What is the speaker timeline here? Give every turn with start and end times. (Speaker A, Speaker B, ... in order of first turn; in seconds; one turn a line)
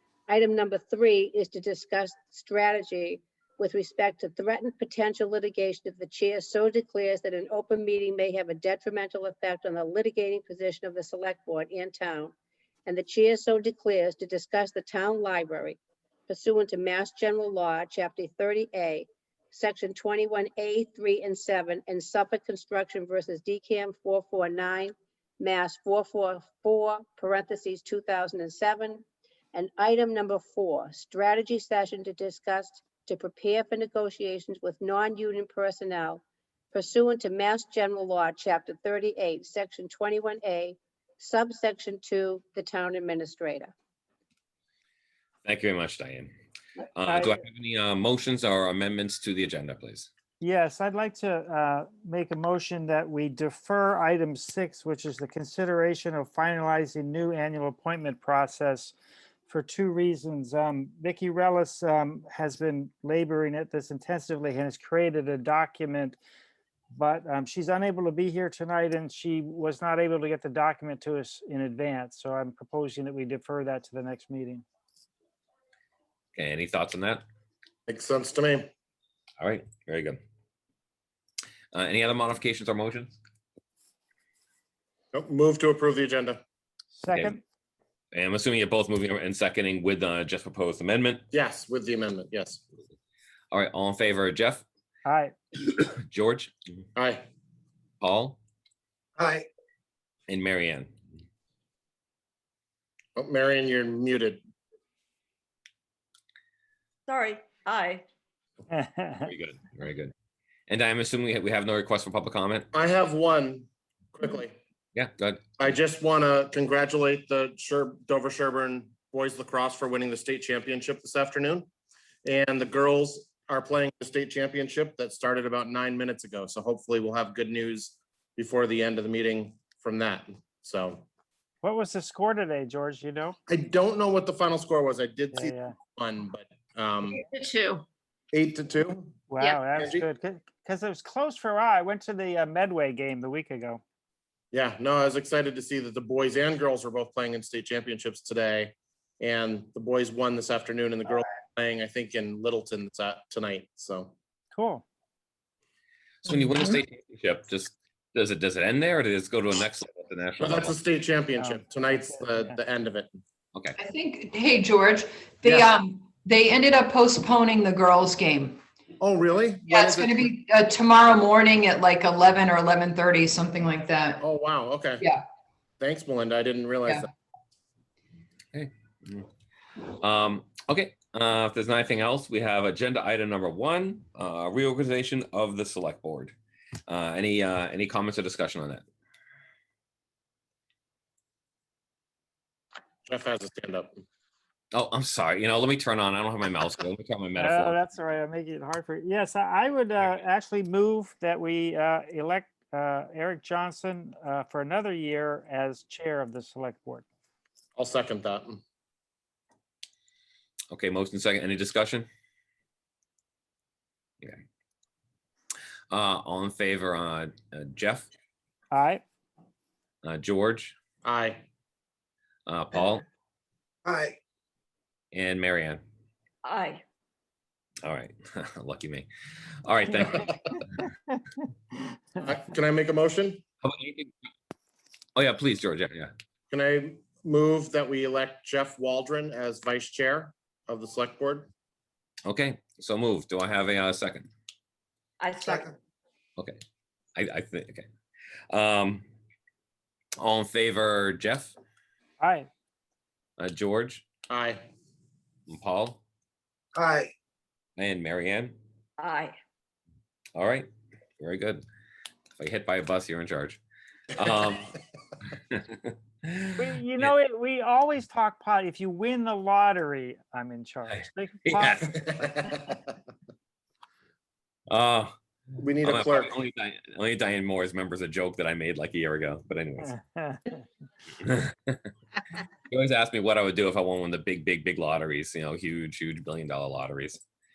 Speaker A: 0.3-12.3
Speaker A: 12.8-43.7
Speaker B: 45.4-46.3
Speaker B: 46.9-50.1
Speaker C: 47.0-47.4
Speaker C: 50.4-58.9
Speaker C: 59.5-66.2
Speaker C: 66.9-74.6
Speaker B: 76.3-77.2
Speaker D: 77.9-78.7
Speaker B: 79.4-80.2
Speaker B: 81.7-83.2
Speaker D: 85.1-86.4
Speaker C: 86.9-87.4
Speaker B: 88.1-91.2
Speaker D: 91.3-92.6
Speaker B: 93.5-94.6
Speaker C: 95.0-95.3
Speaker B: 95.7-96.5
Speaker D: 97.0-97.3
Speaker B: 98.0-98.4
Speaker B: 100.3-100.9
Speaker D: 103.2-104.4
Speaker E: 107.1-108.0
Speaker C: 108.7-109.3
Speaker B: 109.2-110.1
Speaker B: 110.7-112.7
Speaker D: 112.7-114.5
Speaker B: 114.9-115.5
Speaker D: 115.6-121.7
Speaker D: 122.2-131.0
Speaker C: 131.6-133.4
Speaker D: 133.5-137.2
Speaker C: 135.3-135.8
Speaker D: 138.3-139.2
Speaker C: 139.3-143.8
Speaker D: 139.7-140.0
Speaker D: 144.5-154.1
Speaker C: 154.5-154.8
Speaker B: 156.2-160.7
Speaker D: 160.4-163.1
Speaker C: 161.4-162.6
Speaker F: 163.9-165.0
Speaker D: 165.4-165.7
Speaker F: 165.6-168.6
Speaker D: 169.0-170.3
Speaker F: 169.8-170.7
Speaker F: 172.2-174.2
Speaker D: 174.2-175.1
Speaker D: 175.8-177.1
Speaker B: 178.5-179.3
Speaker B: 179.8-186.3
Speaker B: 186.9-188.8
Speaker D: 193.1-194.0
Speaker B: 194.7-197.8
Speaker C: 197.4-207.0
Speaker D: 207.8-208.6
Speaker B: 210.7-212.1
Speaker B: 215.9-218.1
Speaker C: 218.7-219.0
Speaker B: 220.0-220.8
Speaker D: 221.0-221.4
Speaker B: 222.5-223.0
Speaker B: 225.1-225.8
Speaker E: 226.4-226.8
Speaker B: 227.8-229.1
Speaker B: 229.6-230.4
Speaker D: 232.2-233.4
Speaker B: 233.6-234.1
Speaker B: 235.2-236.1
Speaker D: 236.5-241.5
Speaker B: 242.2-244.3
Speaker E: 245.2-245.7
Speaker B: 247.2-247.9
Speaker B: 248.5-249.1
Speaker B: 250.2-251.5
Speaker C: 252.2-252.5
Speaker B: 253.4-254.0
Speaker D: 254.3-254.7
Speaker B: 255.5-256.0
Speaker B: 257.8-258.6
Speaker E: 259.0-259.3
Speaker B: 260.3-261.6
Speaker B: 262.4-263.6
Speaker B: 264.1-264.8
Speaker B: 265.5-267.1
Speaker C: 266.6-272.1
Speaker B: 270.9-272.6
Speaker B: 274.7-275.1
Speaker D: 275.6-276.3
Speaker B: 275.8-279.9
Speaker C: 279.9-280.6
Speaker B: 281.2-281.9
Speaker B: 282.7-287.2